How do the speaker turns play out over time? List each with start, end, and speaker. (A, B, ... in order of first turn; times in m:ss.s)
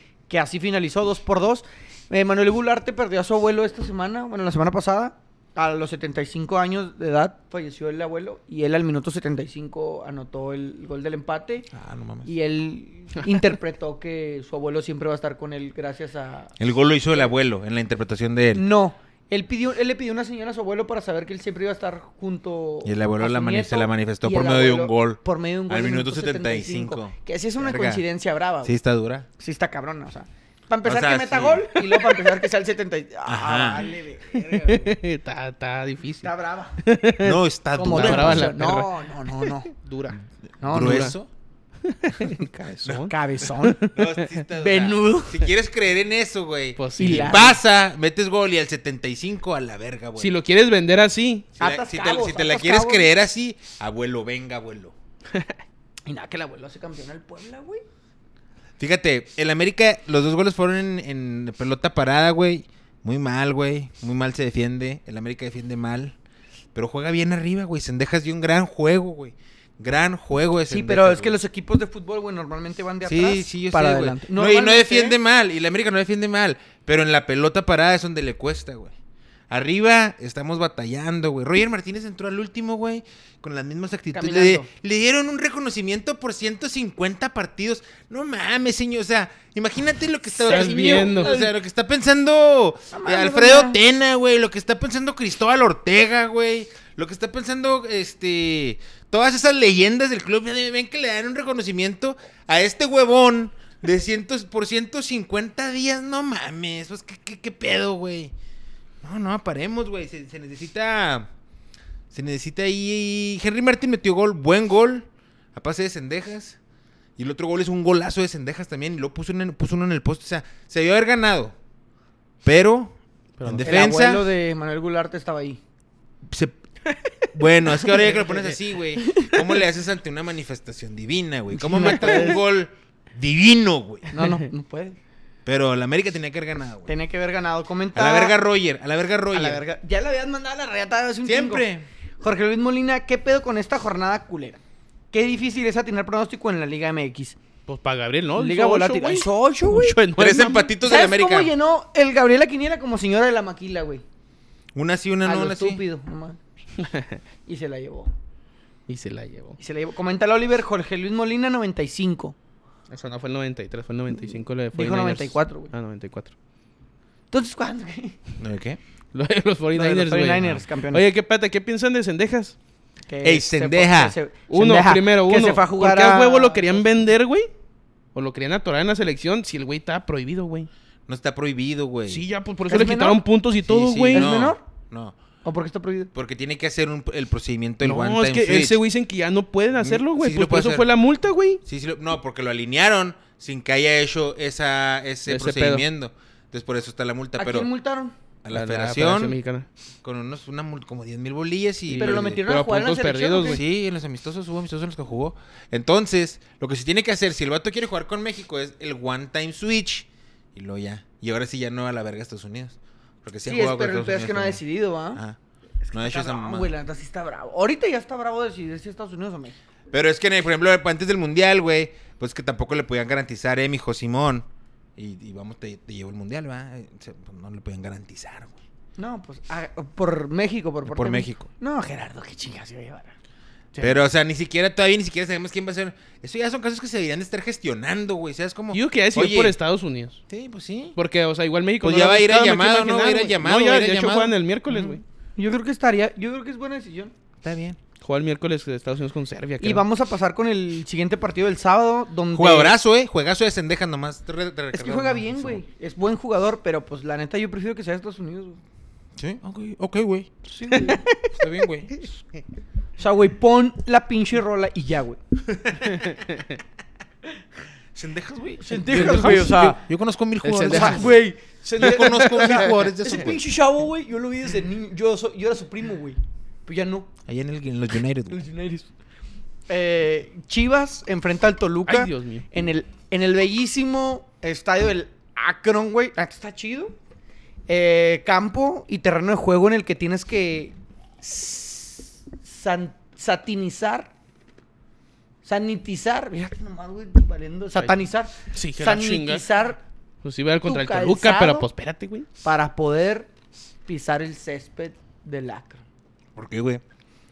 0:00.3-0:11.7 A
0:11.7-0:12.3 B
0:12.2-0:16.6 A
0:16.6-0:18.6 B
0:18.6-0:28.8 A
0:22.8-0:28.0 B
0:28.6-0:29.3 B
0:29.4-0:35.0 A
0:30.8-0:31.7 B
0:31.8-0:32.2 C
0:33.2-0:33.9 B
0:34.3-0:37.4 C
0:36.2-0:36.8 A
0:37.2-0:38.7 B
0:37.8-0:39.7 A
0:37.9-0:40.2 C
0:40.6-0:41.1 A
0:40.7-0:41.3 B
0:40.8-0:41.1 C
0:41.8-0:44.3 C
0:42.9-0:43.8 A
0:44.0-0:50.4 B
0:44.5-0:45.5 A
0:46.8-0:47.5 C
0:47.0-0:47.6 A
0:50.2-0:51.5 C
0:51.6-0:55.0 B
0:51.6-0:53.1 A
0:56.1-0:57.8 A
0:58.8-1:06.2 B
1:06.7-1:11.4 B
1:10.7-1:15.2 A
1:13.0-1:18.9 B
1:19.5-1:48.3 B
1:24.1-1:24.7 A
1:30.4-1:31.5 A
1:30.4-1:31.4 C
1:32.9-1:33.8 A
1:49.0-1:51.3 B
1:52.1-1:56.6 B
1:57.2-2:01.6 B
2:02.4-2:04.3 B
2:03.4-2:03.9 C
2:03.6-2:05.6 A
2:06.3-2:06.6 B
2:07.3-2:14.1 B
2:07.9-2:09.4 A
2:11.5-2:12.4 A
2:11.9-2:12.3 C
2:14.1-2:15.0 A
2:15.5-2:16.9 B
2:16.9-2:18.4 A
2:18.0-2:19.6 B
2:19.3-2:21.7 A
2:21.2-2:21.9 B
2:22.2-2:24.6 A
2:25.1-2:27.4 A
2:27.7-2:30.6 C
2:28.4-2:34.0 A
2:30.2-2:31.5 B
2:34.8-2:35.8 B
2:35.2-2:36.4 A
2:36.8-2:37.2 C
2:37.5-2:38.1 A
2:38.9-2:39.6 C
2:39.6-2:42.4 A
2:42.9-2:46.3 C
2:44.7-2:45.7 A
2:47.3-2:48.2 A
2:48.4-2:48.8 B
2:49.1-2:52.6 C
2:49.8-2:51.0 A
2:53.1-2:57.0 A
2:53.2-2:54.2 B
2:54.5-2:57.5 C
2:58.2-3:00.7 C
3:01.1-3:02.2 B
3:02.1-3:04.3 C
3:02.7-3:03.2 A
3:03.6-3:05.2 B
3:04.1-3:04.6 A
3:05.4-3:06.1 A
3:06.1-3:08.8 B
3:07.8-3:11.6 C
3:09.8-3:10.9 B
3:11.6-3:17.7 B
3:15.3-3:15.8 C
3:17.4-3:18.1 A
3:18.4-3:19.4 B
3:18.5-3:19.7 C
3:20.0-3:22.4 B
3:21.9-3:23.6 C
3:22.0-3:23.6 A
3:23.5-3:34.6 B
3:33.5-3:35.2 A
3:35.8-3:39.6 A
3:35.9-3:36.7 B
3:39.9-3:48.6 B
3:49.0-3:53.1 A
3:50.9-3:51.5 B
3:53.7-3:54.0 C
3:53.8-3:59.6 B
3:58.7-4:00.2 C
4:00.3-4:01.0 B
4:01.0-4:05.0 C
4:01.8-4:05.0 B
4:05.4-4:07.1 A
4:07.4-4:07.8 B
4:08.0-4:09.8 C
4:09.6-4:12.8 A
4:12.3-4:15.6 B
4:14.7-4:18.6 A
4:19.2-4:22.1 B
4:20.6-4:21.0 A
4:20.7-4:21.3 C
4:23.0-4:25.2 A
4:25.5-4:26.1 B
4:25.8-4:26.6 C
4:28.0-4:31.2 B
4:28.6-4:29.8 A
4:28.9-4:29.6 C
4:30.4-4:31.1 C
4:30.7-4:37.1 A
4:31.8-4:33.4 B
4:31.8-4:32.7 C
4:37.3-4:38.4 B
4:38.3-4:38.9 A
4:39.7-4:47.0 A
4:41.9-4:42.4 C
4:47.7-4:54.1 A
4:55.4-4:59.8 A
4:58.5-4:59.5 C
5:00.2-5:02.3 C
5:00.6-5:01.7 A
5:02.4-5:03.3 A
5:03.9-5:05.8 A
5:06.4-5:06.8 B